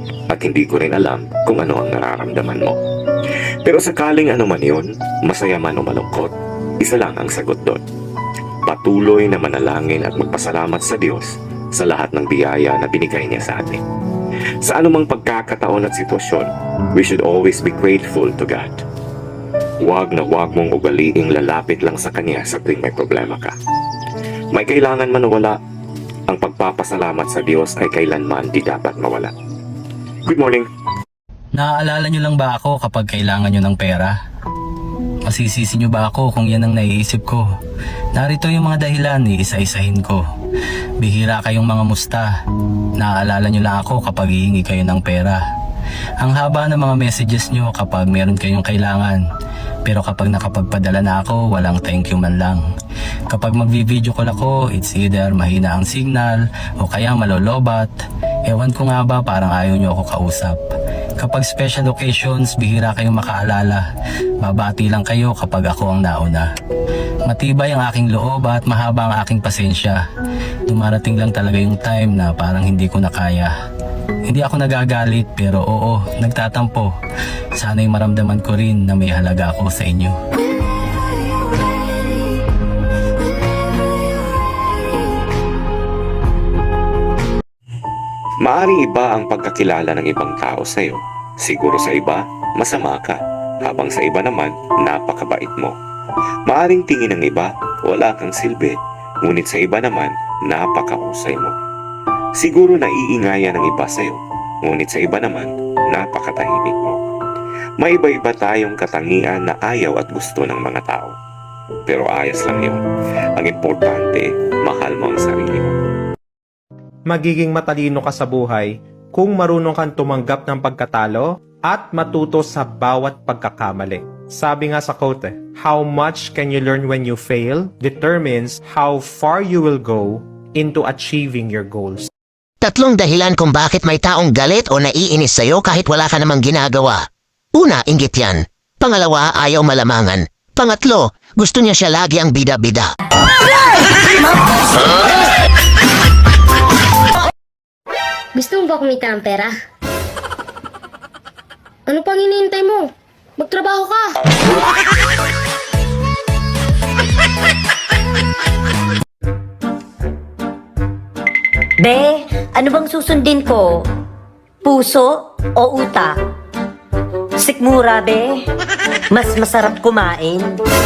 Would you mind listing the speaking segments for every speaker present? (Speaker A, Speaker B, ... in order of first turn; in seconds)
Speaker A: 0.3-2.8, 3.6-7.8, 8.7-13.8, 14.6-18.8, 19.8-23.6, 24.5-25.6, 26.3-29.3, 30.2-30.7, 88.4-95.8, 96.5-101.5, 102.4-107.0, 107.8-111.1, 111.9-112.8, 113.4-115.7
Speaker B: 31.5-34.2, 35.2-37.5, 38.1-40.2, 41.0-42.3, 43.0-45.4, 46.2-49.2, 49.8-52.6, 53.3-57.9, 58.5-60.6, 61.2-63.9, 64.4-66.5, 67.2-70.0, 70.7-73.5, 74.3-76.9, 77.5-80.2
Speaker C: 117.1-132.1
Speaker D: 132.6-137.0, 137.6-142.9
Speaker E: 148.3-149.6, 151.8-154.2
Speaker F: 161.8-163.9, 164.6-166.2, 167.4-168.4, 169.1-170.6